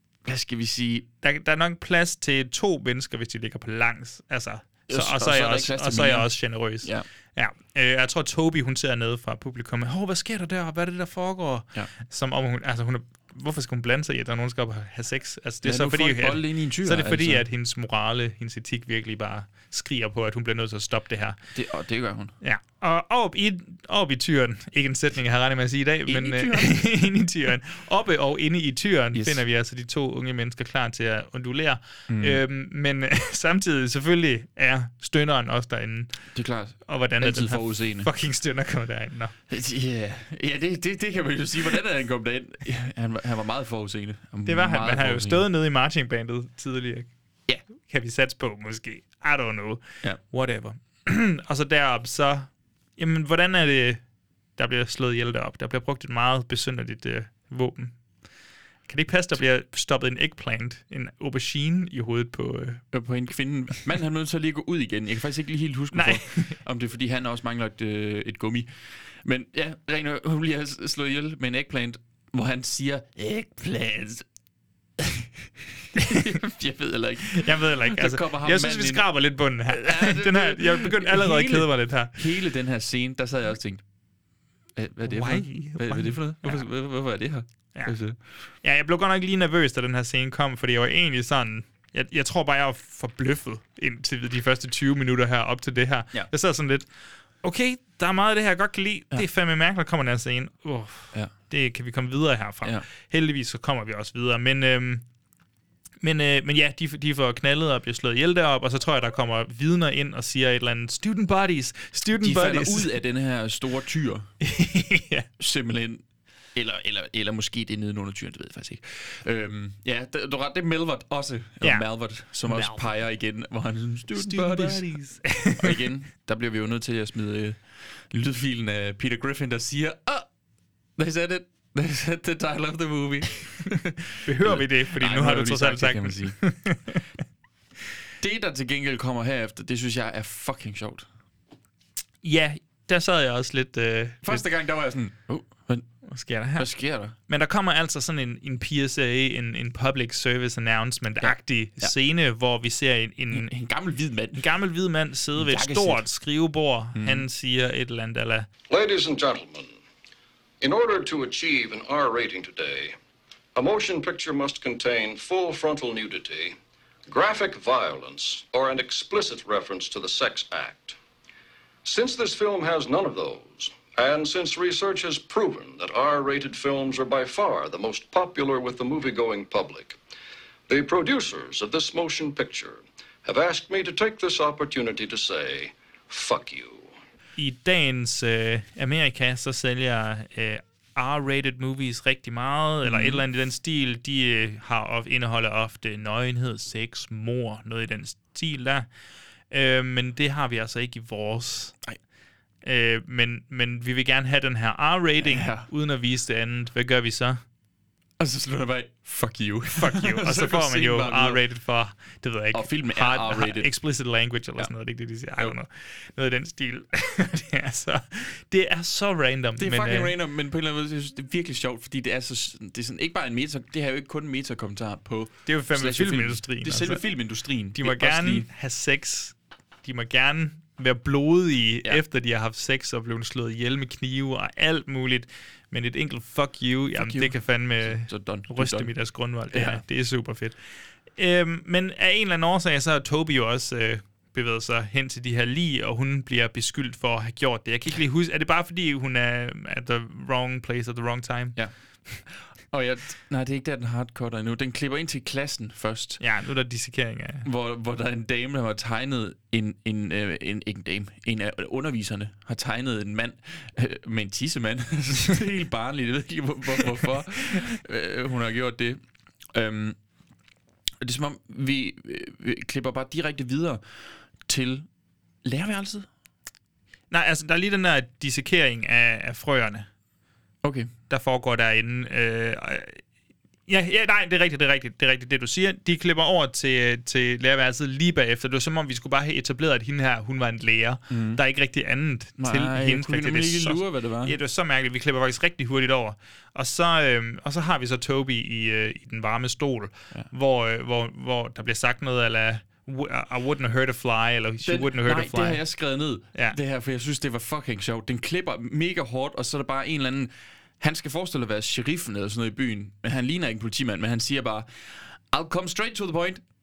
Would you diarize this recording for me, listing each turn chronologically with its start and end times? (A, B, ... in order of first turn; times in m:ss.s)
0:00.2-0:01.1 A
0:01.2-0:21.4 B
0:04.9-0:07.0 A
0:15.6-0:17.4 A
0:21.5-0:22.3 A
0:22.4-0:36.2 B
0:26.0-0:26.9 A
0:29.1-0:29.4 A
0:32.1-0:32.4 A
0:36.3-0:38.1 A
0:36.8-0:39.3 B
0:39.5-0:45.4 A
0:44.4-0:47.1 B
0:47.7-0:54.0 B
0:54.6-0:58.0 B
0:58.9-1:02.8 B
1:02.9-1:08.7 A
1:05.9-1:06.6 B
1:09.2-1:14.2 A
1:15.0-1:23.8 A
1:17.3-1:22.2 B
1:24.7-1:28.2 A
1:25.0-1:26.6 B
1:28.6-1:36.9 B
1:37.4-1:45.0 B
1:46.0-1:52.9 B
1:52.2-1:54.3 A
1:54.4-1:55.3 B
1:55.4-1:56.0 A
1:56.5-2:04.9 A
2:02.4-2:02.9 B
2:04.1-2:05.8 B
2:05.5-2:10.3 A
2:11.0-2:16.4 A
2:14.2-2:17.0 B
2:18.2-2:21.1 A
2:22.2-2:24.4 B
2:24.2-2:25.9 A
2:26.0-2:26.7 B
2:26.5-2:27.1 A
2:27.3-2:33.5 B
2:31.2-2:31.9 A
2:33.3-2:34.5 A
2:34.4-2:38.5 B
2:35.3-2:36.0 A
2:36.9-2:37.3 A
2:38.7-2:39.8 C
2:40.6-2:42.9 C
2:43.5-2:46.6 C
2:47.1-2:51.0 C
2:51.8-3:00.0 C
3:00.7-3:06.9 C
3:07.4-3:18.9 B
3:12.8-3:13.2 A
3:19.5-3:21.8 B
3:22.6-3:27.4 B
3:25.2-3:25.7 A
3:28.2-3:31.4 A
3:29.8-3:40.1 B
3:32.5-3:33.7 A
3:39.6-3:48.5 A
3:45.4-3:47.0 B
3:47.7-4:00.6 B
3:56.9-3:58.9 A
3:59.5-3:59.8 A
4:01.2-4:11.6 B
4:12.2-4:16.2 A
4:16.2-4:17.4 B
4:17.4-4:29.0 A
4:29.5-4:30.0 A
4:31.0-4:33.8 A
4:34.4-4:34.9 A
4:35.4-4:36.1 A
4:37.1-4:39.9 B
4:40.6-4:40.9 A
4:41.1-4:43.0 B
4:43.7-5:05.6 B
4:51.1-4:51.4 A
4:52.4-4:54.4 A
5:04.6-5:16.4 A